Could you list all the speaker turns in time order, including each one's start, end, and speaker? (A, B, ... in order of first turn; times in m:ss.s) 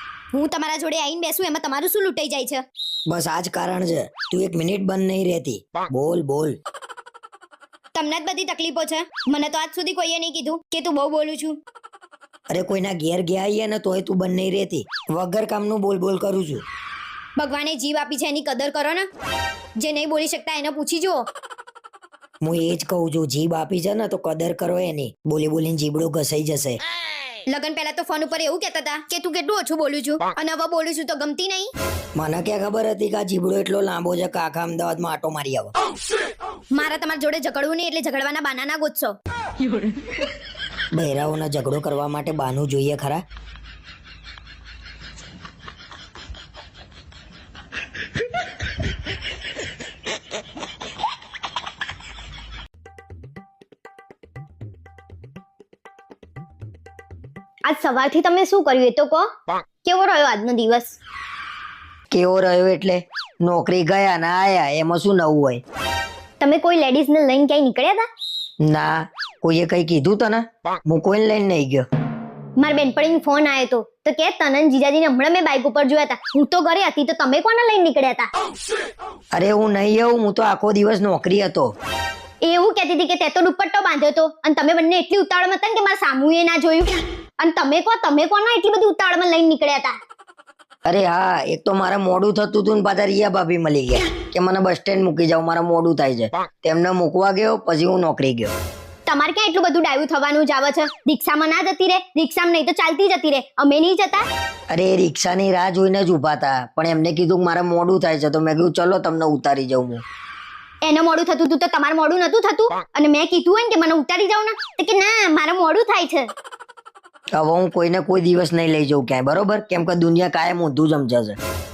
0:00.3-0:02.6 A
0:03.1-0:06.6 B
0:07.9-0:11.6 A
0:12.5-0:16.6 B
0:17.4-0:19.1 A
0:19.8-0:21.2 A
0:22.4-0:26.8 B
0:27.5-0:31.7 A
0:32.2-0:35.7 B
0:36.7-0:39.2 A
0:40.9-0:43.2 B
0:57.6-0:59.3 A
0:59.8-1:01.0 A
1:02.1-1:05.6 B
1:06.4-1:08.1 A
1:08.6-1:11.8 B
1:12.6-1:18.3 A
1:19.4-1:21.7 B
1:22.4-1:30.0 A
1:30.8-1:38.5 B
1:39.1-1:44.2 A
1:44.7-1:50.0 B
1:50.8-1:56.3 A
1:57.3-2:01.4 B